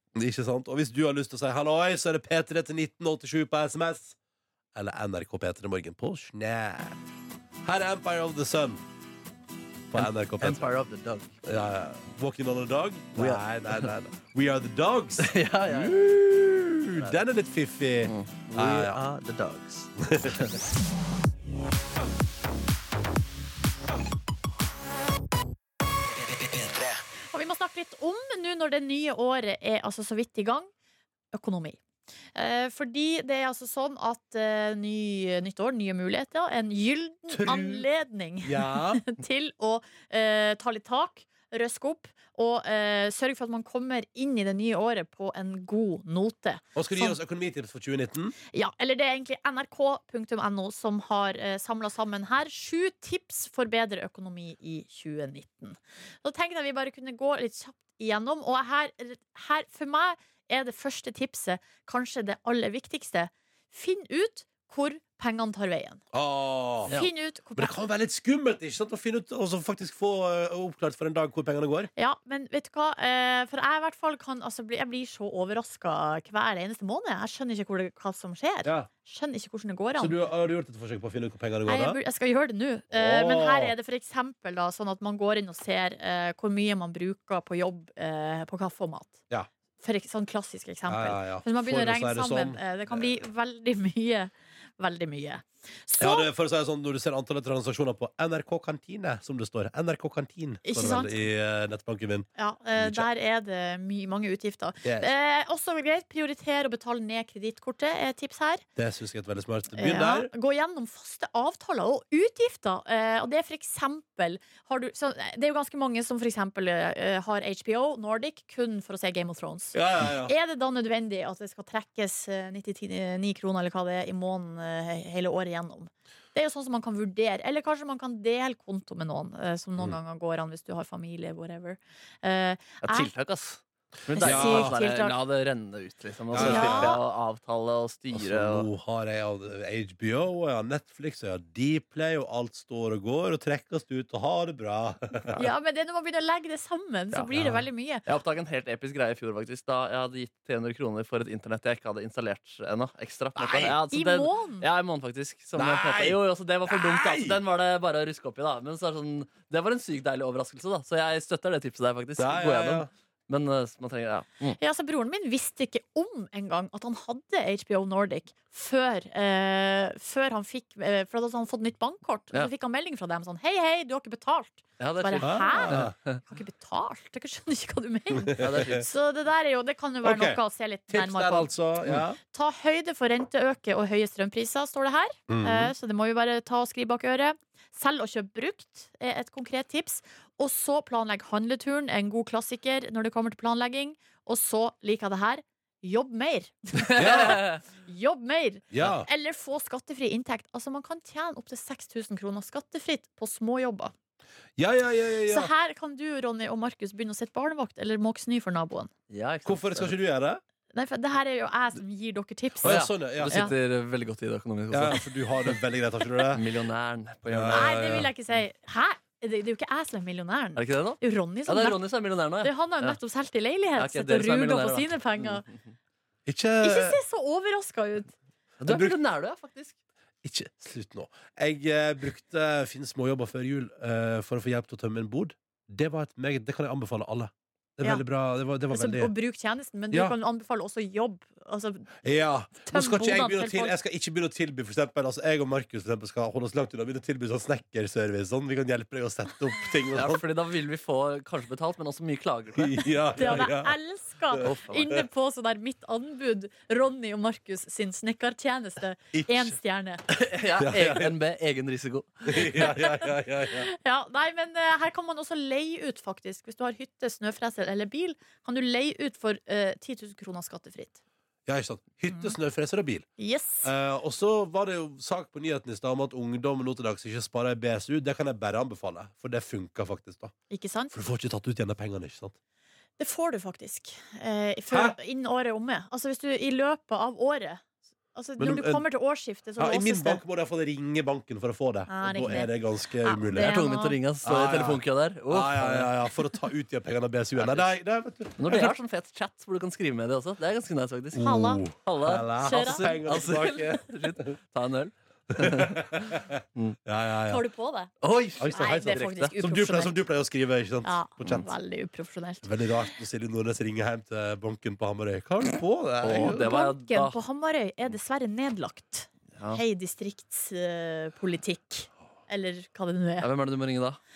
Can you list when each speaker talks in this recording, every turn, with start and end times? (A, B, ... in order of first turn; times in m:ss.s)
0:00.2-0:04.2 A
0:04.8-0:07.0 A
0:07.6-0:08.8 A
0:09.9-0:10.7 A
0:09.9-0:11.4 B
0:11.4-0:19.0 A
0:13.2-0:13.9 B
0:15.2-0:16.0 B
0:18.0-0:20.6 B
0:20.0-0:20.6 A
0:27.3-0:30.7 C
0:31.3-0:31.8 C
0:32.4-0:47.2 C
0:37.3-0:37.9 A
0:38.4-0:39.0 A
0:46.8-0:48.4 A
0:48.5-1:06.0 C
1:06.1-1:07.0 A
1:06.9-1:07.8 C
1:07.6-1:11.9 A
1:12.0-1:20.1 C
1:20.0-1:22.0 A
1:21.7-1:29.2 C
1:22.9-1:23.7 A
1:29.8-1:36.3 C
1:30.9-1:33.1 A
1:36.0-1:43.1 A
1:40.6-1:41.2 C
1:42.4-1:48.6 C
1:44.8-1:45.1 A
1:48.8-1:50.3 A
1:49.8-2:13.1 C
1:59.7-2:00.3 A
2:12.8-2:18.7 B
2:14.2-2:15.2 C
2:14.2-2:14.8 A
2:16.3-2:17.0 A
2:16.4-2:17.0 C
2:18.1-2:25.4 A
2:25.3-2:28.0 C
2:27.3-2:27.6 A
2:28.1-2:44.6 B
2:33.4-2:33.8 A
2:33.9-2:34.7 C
2:35.6-2:37.4 A
2:42.2-2:42.9 A
2:44.6-3:01.5 C
2:54.8-2:56.2 B
2:55.2-2:55.9 A
2:58.2-2:58.8 A
2:58.4-2:58.9 B
3:00.0-3:02.2 A
3:02.3-3:23.9 C
3:05.3-3:05.7 A
3:16.8-3:17.6 B
3:17.0-3:17.4 A
3:18.7-3:19.1 A
3:24.6-3:25.5 A
3:25.3-3:28.9 C
3:29.1-3:29.9 B
3:29.4-3:30.4 A
3:30.7-3:33.5 C
3:32.6-3:33.5 A
3:32.6-3:35.6 B
3:34.7-3:36.4 A
3:36.3-3:38.0 B
3:37.3-3:38.1 A
3:37.5-3:41.8 C
3:40.6-3:43.0 B
3:42.4-3:45.4 C
3:43.8-3:45.6 B
3:46.3-3:47.0 A
3:46.6-3:48.1 C
3:48.6-3:49.8 B
3:48.7-3:49.0 A
3:50.2-3:59.1 A
3:58.7-4:01.9 C
4:02.0-4:10.2 A
4:02.7-4:03.8 C
4:09.9-4:12.8 B
4:12.6-4:13.8 A
4:13.2-4:20.0 C
4:14.4-4:15.0 B
4:19.1-4:19.5 A
4:20.1-4:22.7 B
4:20.6-4:21.1 A
4:22.3-4:23.7 A
4:22.6-4:23.1 C
4:23.6-4:31.0 C
4:31.5-4:33.1 A
4:33.2-4:33.7 C
4:33.6-4:40.3 A
4:40.5-4:41.0 C
4:40.9-4:42.4 A
4:43.0-4:47.6 C
4:44.7-4:45.0 A
4:48.1-4:50.2 C
4:48.4-4:48.8 A
4:49.6-4:53.6 A
4:51.9-4:54.0 C
4:53.3-4:55.9 B
4:54.2-4:58.7 A
4:57.4-4:57.7 B
4:58.4-5:06.8 B
5:01.1-5:04.3 A
5:01.2-5:01.6 C
5:02.4-5:02.9 C
5:05.3-5:07.4 A
5:07.3-5:07.9 C
5:08.0-5:09.3 B
5:08.4-5:11.5 A
5:08.5-5:10.0 C
5:10.8-5:12.5 C
5:12.4-5:16.5 A
5:16.0-5:17.2 B
5:16.2-5:23.3 C
5:19.4-5:19.6 B
5:23.2-5:24.0 B